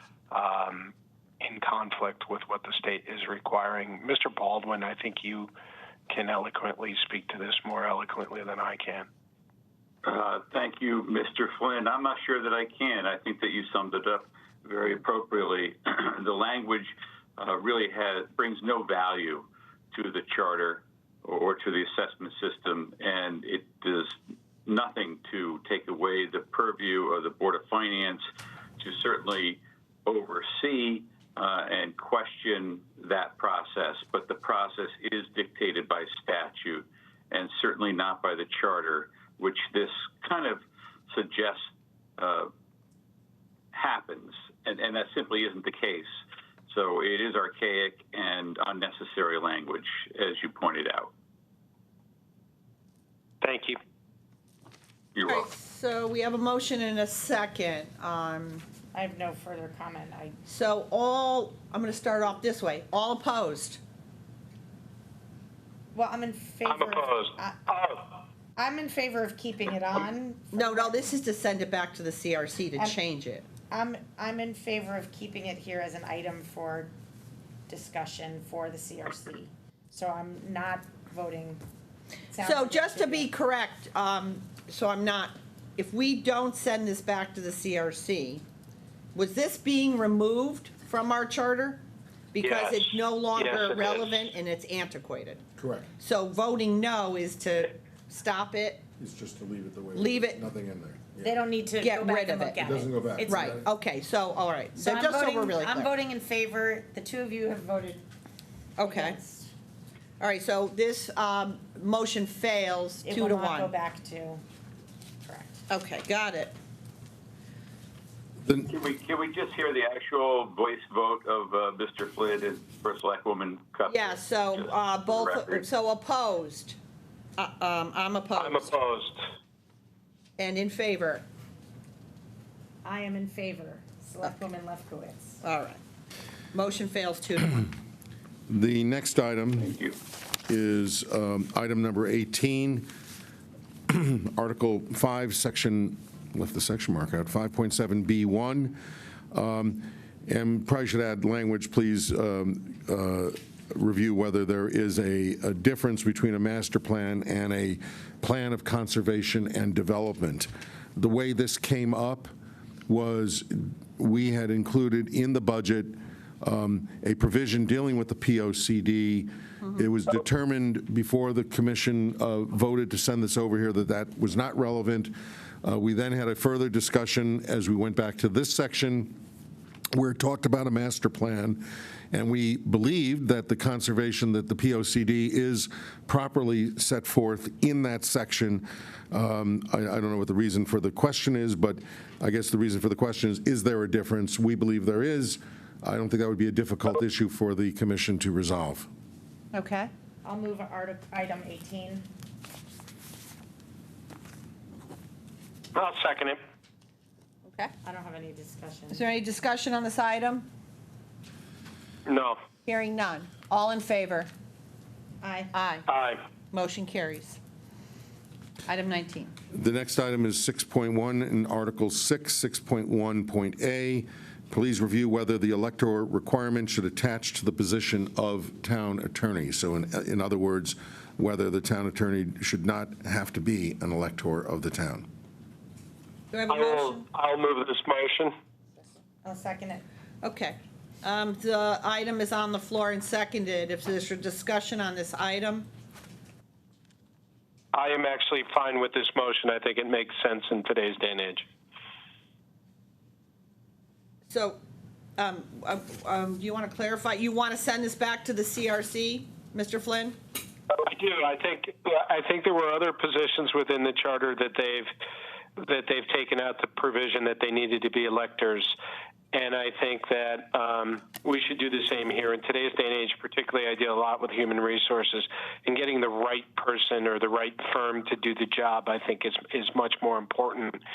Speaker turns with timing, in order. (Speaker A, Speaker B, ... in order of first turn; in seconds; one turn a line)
Speaker A: 0.3-5.5
Speaker A: 6.1-9.1
Speaker B: 10.0-28.2
Speaker B: 28.8-42.5
Speaker B: 43.7-46.1
Speaker B: 46.7-51.1
Speaker A: 53.4-53.8
Speaker B: 55.1-55.5
Speaker C: 55.2-58.7
Speaker D: 58.9-60.4
Speaker C: 60.5-63.8
Speaker D: 65.9-67.6
Speaker A: 66.7-68.0
Speaker D: 68.6-71.1
Speaker C: 70.5-73.5
Speaker D: 73.6-76.9
Speaker D: 77.7-81.6
Speaker D: 82.3-83.3
Speaker C: 82.4-88.4
Speaker C: 89.1-95.4
Speaker A: 92.4-94.2
Speaker E: 95.6-95.9
Speaker C: 96.0-98.8
Speaker E: 99.0-101.3
Speaker C: 99.9-100.4
Speaker D: 101.2-103.5
Speaker C: 101.8-102.6
Speaker E: 102.6-103.6
Speaker C: 103.2-105.9
Speaker D: 104.8-108.0
Speaker C: 108.8-109.2
Speaker D: 108.8-109.5
Speaker C: 110.2-113.7
Speaker D: 113.0-114.4
Speaker D: 115.2-115.6
Speaker C: 115.7-116.5
Speaker E: 118.4-118.7
Speaker B: 118.7-125.7
Speaker C: 123.8-126.8
Speaker C: 127.4-128.7
Speaker A: 128.3-129.2
Speaker C: 130.4-131.2
Speaker D: 132.8-135.4
Speaker C: 135.4-135.8
Speaker C: 136.5-137.7
Speaker E: 138.5-139.8
Speaker B: 139.6-139.9
Speaker E: 140.5-142.9
Speaker E: 143.9-148.8
Speaker E: 149.3-162.3
Speaker E: 162.9-179.2
Speaker E: 179.9-198.9
Speaker C: 199.5-199.9
Speaker D: 200.2-202.1
Speaker A: 205.7-206.4
Speaker C: 207.4-207.7
Speaker D: 207.8-209.1
Speaker C: 208.9-210.5
Speaker A: 212.1-212.4
Speaker C: 212.7-214.3
Speaker D: 215.2-215.5
Speaker C: 215.5-215.8
Speaker A: 215.9-216.2
Speaker C: 216.5-217.4
Speaker C: 218.7-219.3
Speaker E: 219.5-235.1
Speaker C: 236.3-237.0
Speaker A: 236.5-238.3
Speaker D: 239.2-239.8
Speaker C: 240.2-245.7
Speaker A: 247.7-251.5
Speaker C: 254.3-254.6
Speaker C: 255.2-260.2
Speaker A: 260.7-264.9
Speaker A: 265.6-268.7
Speaker A: 269.3-280.8